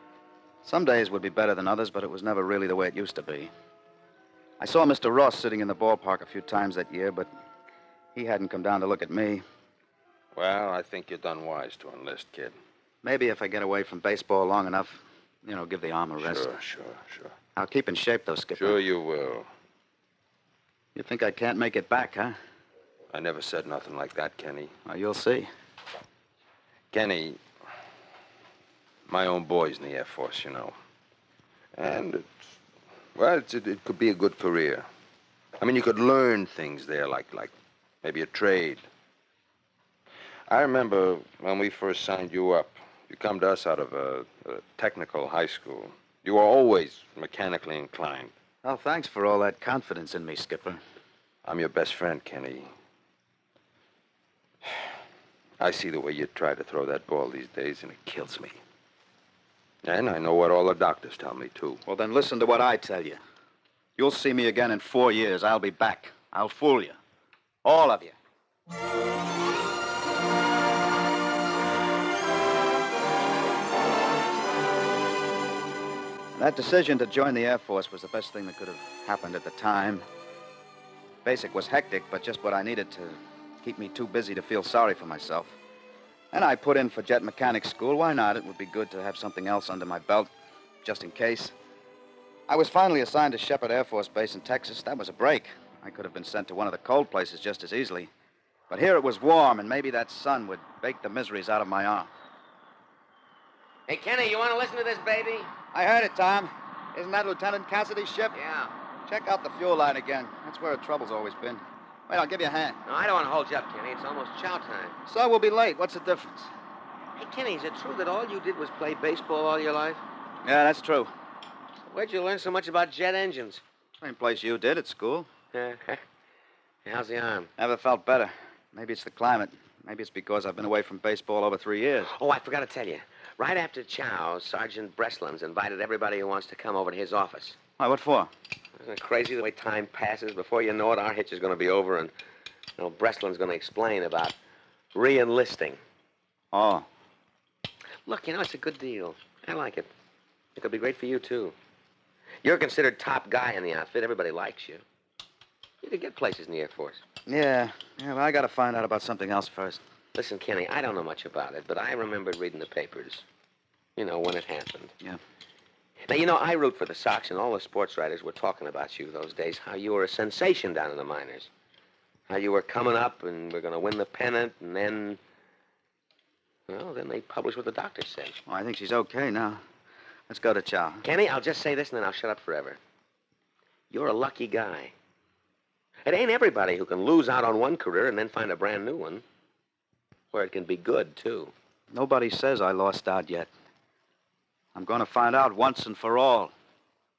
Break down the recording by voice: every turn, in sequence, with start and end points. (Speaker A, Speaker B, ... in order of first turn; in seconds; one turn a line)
Speaker A: 0.6-3.5
Speaker A: 4.6-7.3
Speaker A: 8.2-9.4
Speaker B: 10.4-12.6
Speaker A: 13.0-16.5
Speaker B: 16.2-17.3
Speaker A: 17.6-18.8
Speaker B: 18.6-19.5
Speaker A: 20.9-22.4
Speaker B: 23.1-24.7
Speaker A: 24.9-25.5
Speaker B: 26.9-27.4
Speaker B: 29.1-30.8
Speaker B: 31.8-32.6
Speaker B: 33.1-34.9
Speaker B: 35.6-38.8
Speaker B: 40.5-48.3
Speaker A: 48.6-50.8
Speaker B: 51.5-52.7
Speaker B: 55.6-58.6
Speaker B: 59.8-61.8
Speaker A: 61.9-63.2
Speaker A: 64.0-67.0
Speaker A: 67.6-68.2
Speaker A: 76.3-80.0
Speaker A: 81.2-85.6
Speaker A: 86.3-90.3
Speaker A: 90.8-91.5
Speaker A: 92.5-98.1
Speaker A: 98.7-102.1
Speaker C: 103.9-105.5
Speaker A: 105.7-108.4
Speaker C: 108.3-108.7
Speaker A: 109.1-112.8
Speaker C: 112.9-115.0
Speaker A: 115.1-116.5
Speaker C: 117.2-120.0
Speaker A: 120.4-121.1
Speaker C: 121.9-123.6
Speaker A: 124.0-125.3
Speaker C: 125.5-126.0
Speaker C: 126.8-127.5
Speaker A: 127.6-132.1
Speaker C: 132.1-137.6
Speaker A: 137.8-138.3
Speaker C: 138.8-142.1
Speaker C: 142.8-144.4
Speaker C: 144.9-145.8
Speaker A: 146.5-146.9
Speaker C: 148.1-149.9
Speaker C: 150.6-151.6
Speaker C: 152.4-154.8
Speaker C: 155.8-157.0
Speaker A: 157.3-159.8
Speaker C: 160.2-163.2
Speaker C: 164.0-165.0
Speaker C: 166.1-171.5
Speaker C: 172.3-175.2
Speaker C: 176.7-178.4
Speaker A: 178.5-179.6
Speaker A: 180.3-181.0
Speaker C: 181.0-182.8
Speaker C: 183.9-184.9
Speaker C: 186.1-189.2
Speaker C: 190.3-191.5
Speaker A: 191.9-193.5
Speaker A: 194.8-196.5